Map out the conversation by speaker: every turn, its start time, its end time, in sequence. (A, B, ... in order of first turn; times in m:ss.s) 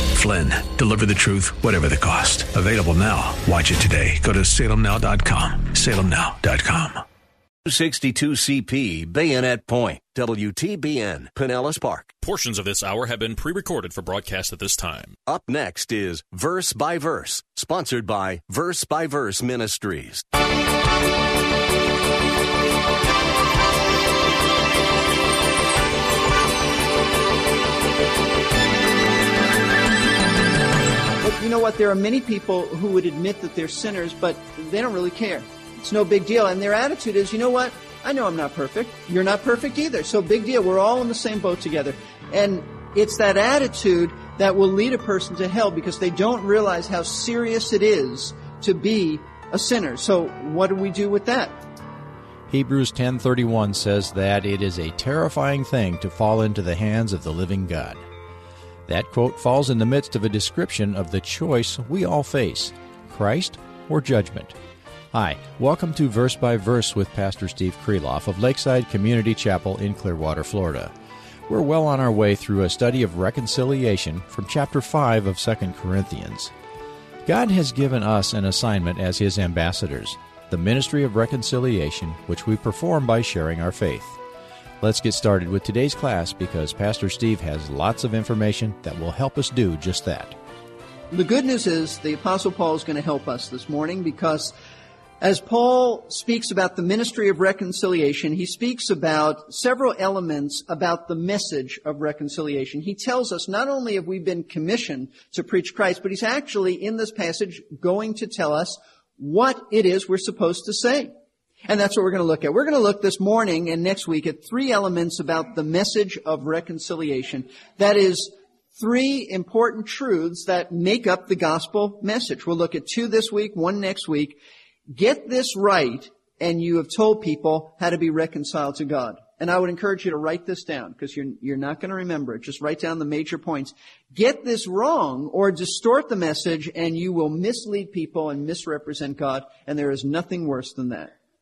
0:00.1-0:07.0 A
0:07.6-0:12.1 B
0:12.2-0:15.2 C
0:15.2-0:20.2 B
0:31.2-0:51.6 D
0:52.5-0:58.0 E
0:58.9-1:04.6 E
1:05.1-1:10.9 E
1:11.5-1:16.5 E
1:17.3-1:24.2 E
1:24.8-1:30.4 E
1:31.1-1:34.5 D
1:35.2-1:51.1 D
1:51.7-2:04.4 D
2:04.9-2:21.1 D